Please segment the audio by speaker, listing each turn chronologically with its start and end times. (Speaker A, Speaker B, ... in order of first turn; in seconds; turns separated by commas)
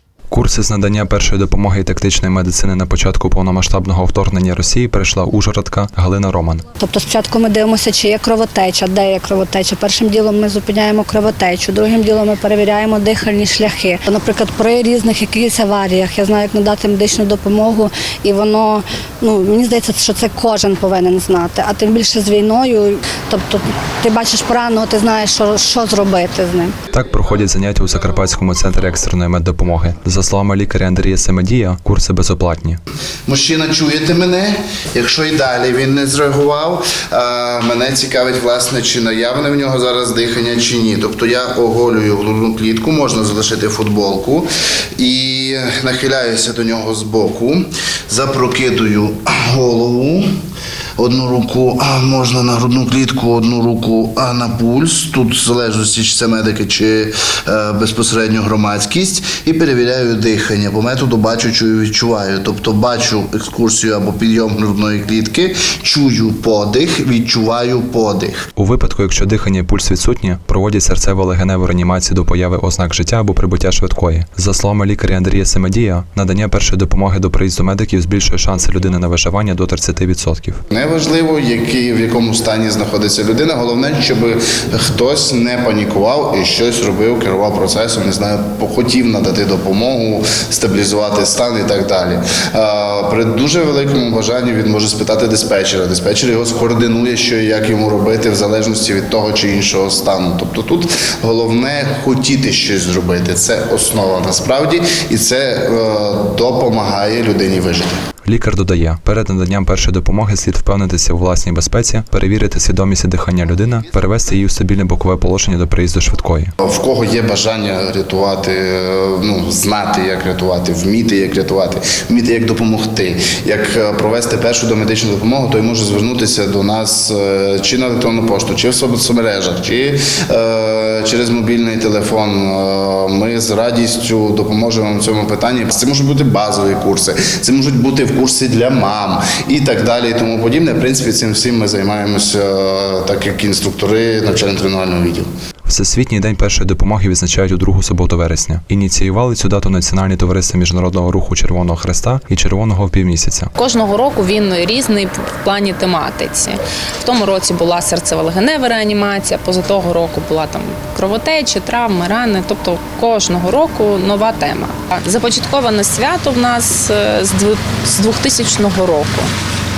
Speaker A: 0.3-6.7, Speaker B: 6.8-26.7, Speaker A: 26.9-32.8, Speaker C: 33.3-50.3, Speaker C: 51.0-68.5, Speaker A: 68.6-80.6, Speaker C: 80.7-107.9, Speaker A: 108.2-116.5, Speaker C: 116.6-145.3, Speaker A: 145.7-153.5, Speaker D: 153.6-169.3